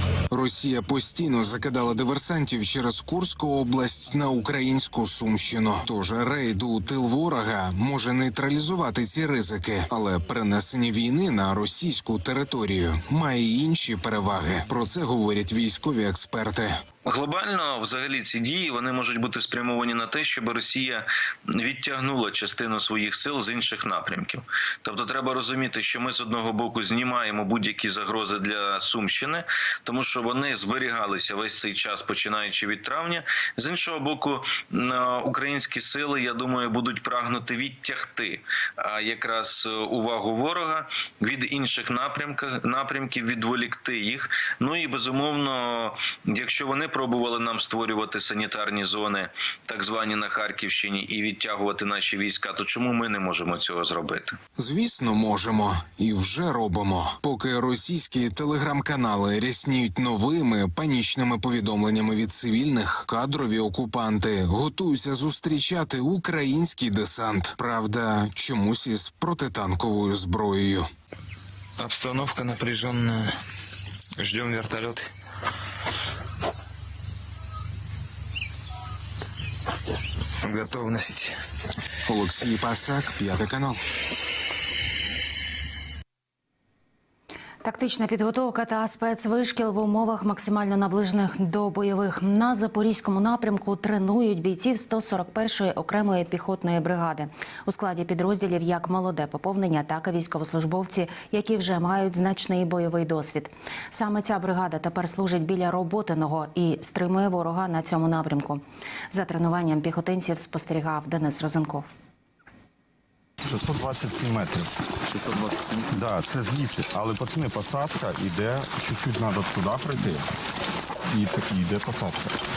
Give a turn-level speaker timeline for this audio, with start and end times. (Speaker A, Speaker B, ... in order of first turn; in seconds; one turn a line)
Speaker A: 0.3-16.8
Speaker B: 17.1-21.1
Speaker B: 21.6-54.4
Speaker A: 54.6-70.9
Speaker C: 71.8-73.3
Speaker C: 74.2-75.1
Speaker C: 80.4-81.3
Speaker A: 82.1-83.8
Speaker D: 87.7-111.9
Speaker E: 113.5-114.8
Speaker E: 115.3-120.2
Speaker E: 121.1-122.3